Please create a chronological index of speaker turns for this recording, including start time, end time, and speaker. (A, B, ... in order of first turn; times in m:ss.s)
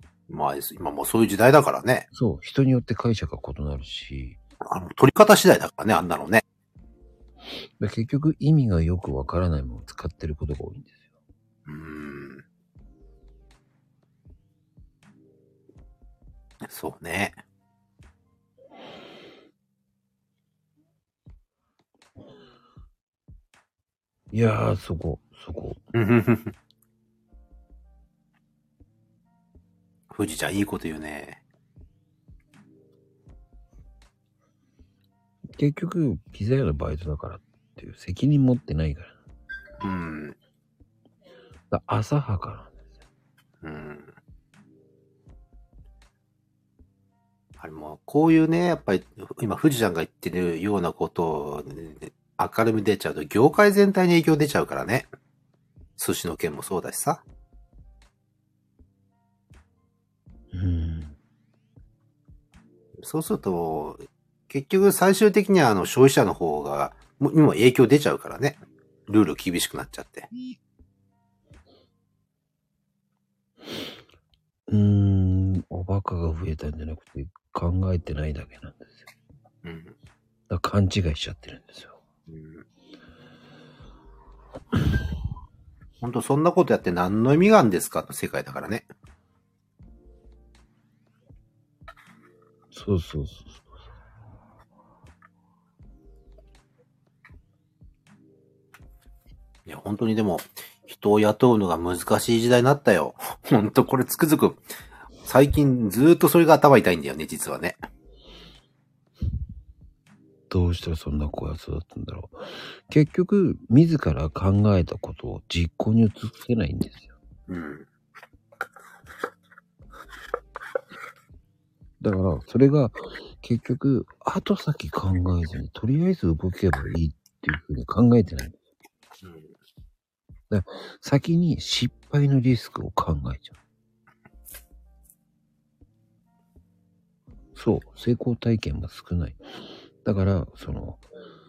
0:00.3-0:02.1 A
0:02.1-0:04.4 B
0:04.6-0:06.4 A
0:07.8-0:11.0 B
0:11.7-0:12.4 A
0:16.7-0:17.4 A
0:24.3-0:25.8 B
0:25.9-0:26.5 A
0:30.1-0:31.4 A
0:35.6-0:39.2 B
0:39.8-0:40.4 A
0:41.7-0:42.8 B
0:43.6-0:44.1 A
0:47.6-0:55.1 A
0:56.0-0:57.2 A
1:00.5-1:01.2 B
1:03.0-1:10.3 A
1:14.7-1:19.1 B
1:19.6-1:19.9 A
1:20.5-1:22.0 B
1:22.3-1:22.6 A
1:26.0-1:28.8 A
1:32.7-1:33.6 B
1:39.7-1:44.6 A
1:45.2-1:47.8 A
1:50.5-1:57.1 B
1:57.5-1:57.8 A
2:02.0-2:08.6 B
2:09.2-2:09.5 A
2:10.5-2:13.6 B
2:17.5-2:19.4 B
2:20.0-2:21.0 B